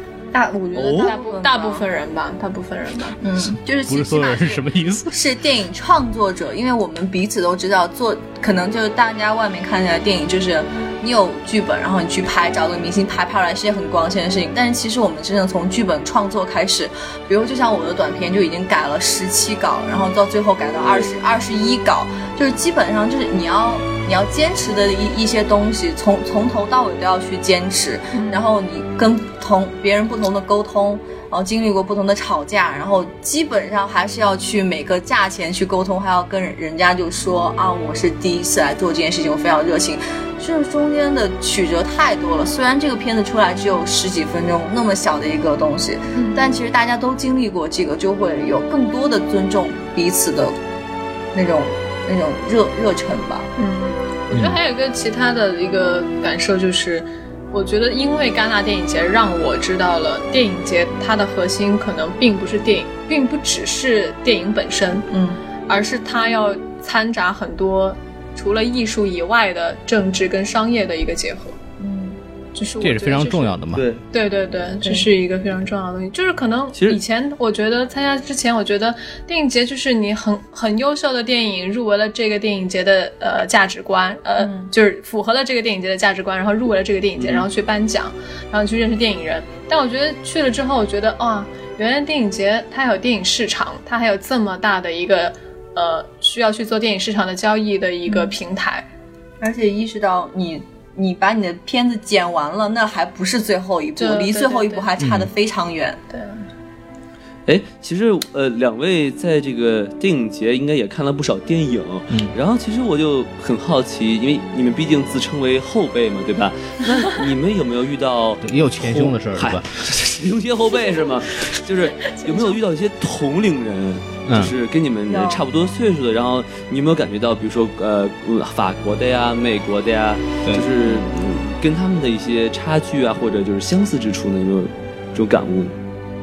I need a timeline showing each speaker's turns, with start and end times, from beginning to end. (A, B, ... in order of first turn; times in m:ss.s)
0:00.3-0:01.9 A
0:00.8-0:01.1 B
0:00.9-0:03.2 C
0:03.2-0:50.6 A
0:03.9-0:05.1 D
0:28.1-0:28.5 C
0:46.1-0:46.6 C
0:51.3-0:53.5 A
0:53.6-1:05.1 C
0:54.3-0:54.6 D
1:05.1-1:05.4 A
1:05.7-1:11.6 C
1:11.8-1:12.2 A
1:12.6-1:13.6 C
1:12.8-1:13.8 D
1:13.7-1:14.0 B
1:14.1-1:38.9 C
1:24.4-1:24.7 A
1:27.2-1:27.5 B
1:38.1-1:38.4 A
1:39.4-1:46.0 A
1:44.0-1:44.9 C
1:45.0-1:45.3 D
1:46.1-1:46.4 C
1:47.5-2:15.8 B
1:52.1-1:52.4 D
1:58.4-1:59.7 D
2:04.3-2:04.5 D
2:05.1-2:05.4 A
2:10.4-2:11.0 D